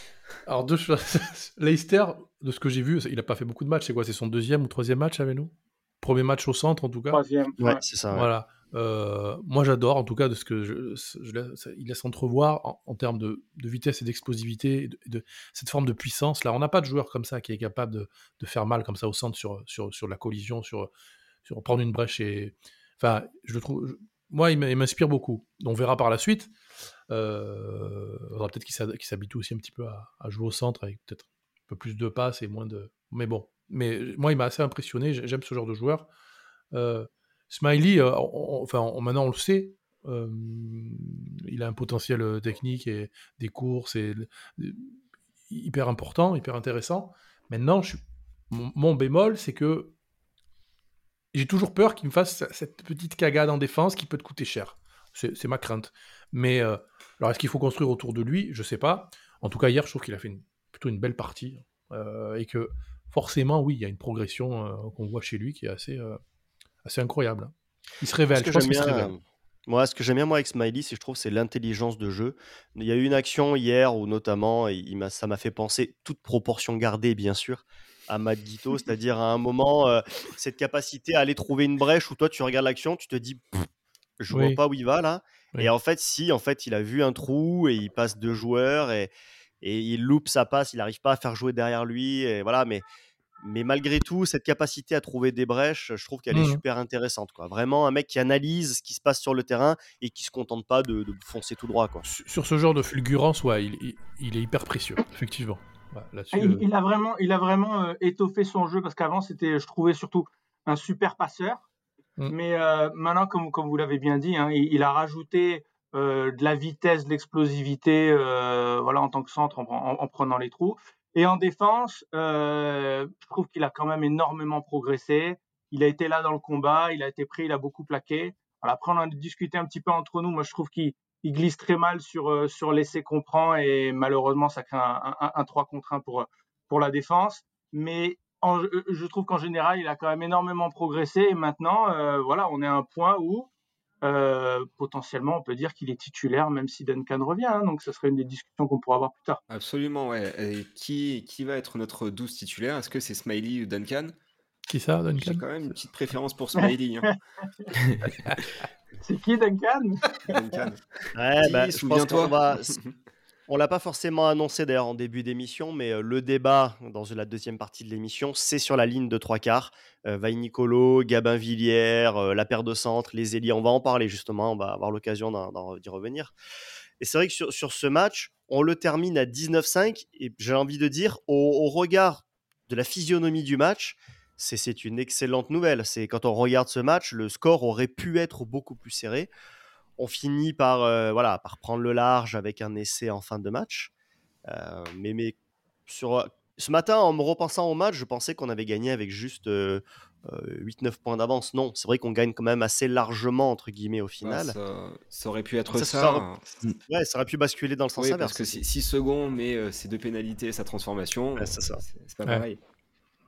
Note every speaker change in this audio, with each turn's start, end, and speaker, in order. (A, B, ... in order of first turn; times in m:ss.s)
0:00.5-0:07.2 A
0:07.1-0:07.8 B
0:07.6-0:08.3 C
0:08.1-0:20.9 A
0:21.4-0:26.5 A
0:27.1-0:36.1 A
0:36.7-0:44.9 A
0:45.5-0:50.0 A
0:51.3-1:06.2 A
1:06.8-1:09.1 A
1:08.3-1:23.7 C
1:24.2-1:32.8 C
1:24.3-1:24.6 A
1:33.4-1:42.1 C
1:36.3-1:36.6 A
1:42.1-1:46.6 A
1:46.3-1:51.7 B
1:52.3-2:23.5 B
2:24.0-2:29.4 B
2:29.5-2:34.2 D
2:34.7-2:35.5 A
2:35.2-2:37.2 D
2:36.6-2:37.7 B
2:38.0-2:38.6 A
2:39.0-2:40.2 B
2:40.3-2:40.8 D
2:41.2-2:42.8 C
2:41.4-2:43.0 D
2:43.5-2:56.3 C
2:57.0-3:09.3 C
3:10.0-3:13.9 C
3:14.5-3:24.6 C
3:24.2-3:26.6 D
3:25.7-3:26.3 C
3:26.8-3:28.6 C
3:28.0-3:32.6 D
3:31.4-3:31.8 C